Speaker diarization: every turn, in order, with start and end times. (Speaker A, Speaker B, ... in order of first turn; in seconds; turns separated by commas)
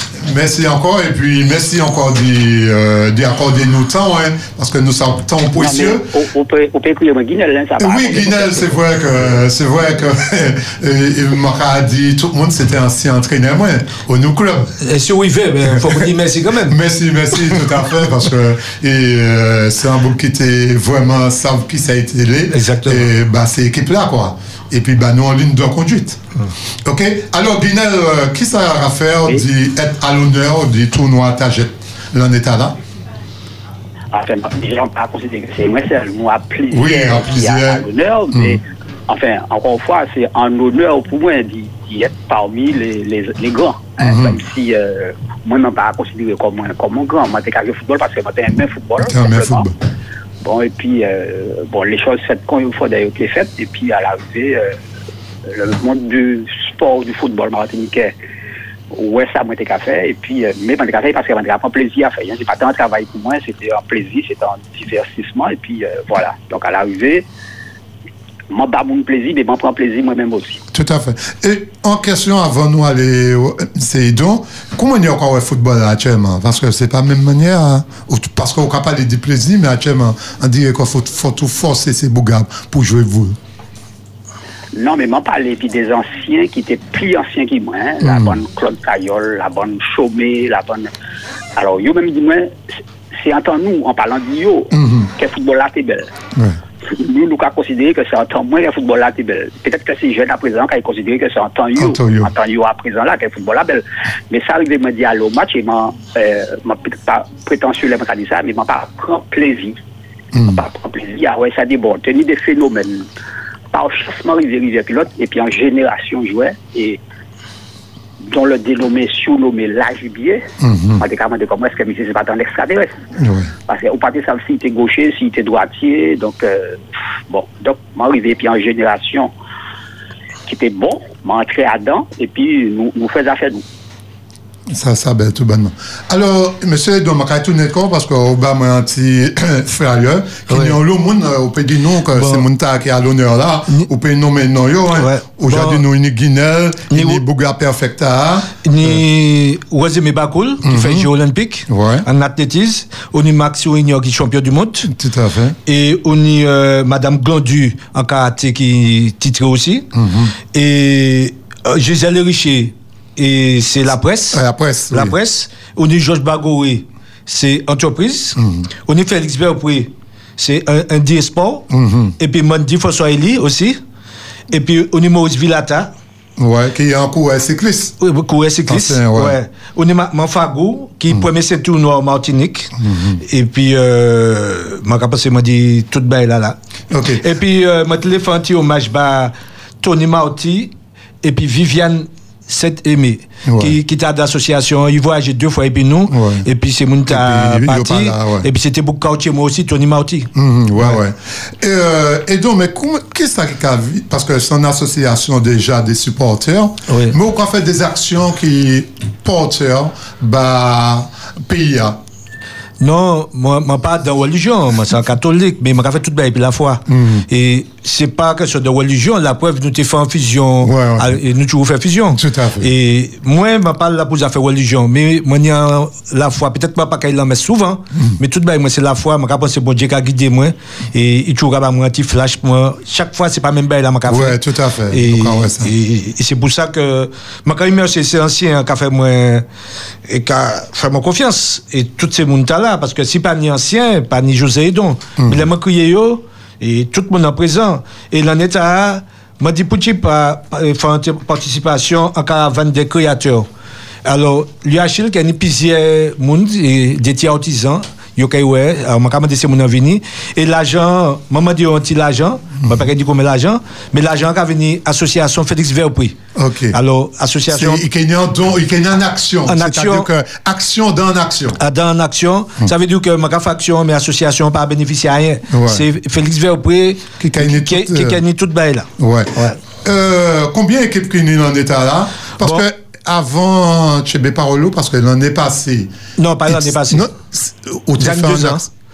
Speaker A: 0.2-6.0, Speaker B: 5.5-8.8, Speaker A: 7.8-14.7, Speaker C: 14.8-16.8, Speaker A: 15.8-16.0, Speaker A: 16.7-26.2, Speaker C: 22.5-23.1, Speaker A: 26.9-32.8, Speaker B: 34.1-49.6, Speaker A: 36.7-38.6, Speaker A: 44.0-44.4, Speaker A: 49.0-49.7, Speaker B: 50.4-54.7, Speaker B: 55.5-58.1, Speaker B: 58.9-67.2, Speaker B: 68.5-70.6, Speaker A: 70.7-83.4, Speaker B: 84.8-90.9, Speaker A: 88.0-88.4, Speaker B: 91.6-92.5, Speaker B: 93.2-96.1, Speaker A: 94.7-95.1, Speaker B: 96.9-109.8, Speaker A: 101.8-102.3, Speaker A: 110.3-110.7, Speaker B: 110.5-113.0, Speaker B: 113.7-117.0, Speaker B: 118.3-120.5, Speaker A: 120.6-121.0, Speaker B: 121.0-123.0, Speaker A: 123.2-123.5, Speaker B: 123.7-129.3, Speaker B: 130.5-133.6, Speaker A: 134.7-149.0, Speaker C: 140.5-140.8, Speaker C: 142.1-142.5, Speaker C: 144.9-145.8, Speaker C: 146.9-147.2, Speaker C: 148.7-154.9, Speaker A: 150.6-151.1, Speaker A: 151.7-152.1, Speaker A: 154.9-155.6, Speaker C: 155.7-159.9, Speaker A: 159.9-160.3, Speaker C: 160.5-168.4, Speaker A: 164.3-165.2, Speaker A: 168.4-168.7, Speaker C: 168.9-171.7, Speaker A: 171.7-172.2, Speaker C: 172.2-173.8, Speaker C: 174.5-175.9, Speaker A: 176.4-177.9, Speaker C: 178.0-182.7, Speaker A: 178.7-179.4, Speaker A: 182.8-183.2, Speaker C: 183.3-186.6, Speaker A: 186.9-187.2, Speaker C: 187.2-201.0, Speaker A: 193.5-193.8, Speaker A: 196.1-196.5, Speaker A: 197.1-198.5, Speaker A: 200.4-212.0, Speaker C: 206.9-207.2, Speaker C: 212.8-234.4, Speaker A: 216.9-217.3, Speaker A: 220.6-221.2, Speaker A: 222.2-222.7, Speaker A: 234.1-235.7, Speaker C: 234.9-239.4, Speaker C: 240.1-253.5, Speaker A: 245.2-245.5, Speaker C: 254.1-266.1, Speaker A: 266.4-266.8, Speaker C: 266.7-267.8, Speaker A: 267.5-271.6, Speaker C: 269.5-270.1, Speaker C: 271.6-279.6, Speaker A: 275.5-275.9, Speaker A: 277.2-278.2, Speaker A: 279.0-285.9, Speaker C: 286.2-287.0, Speaker A: 286.5-288.7, Speaker C: 288.0-288.7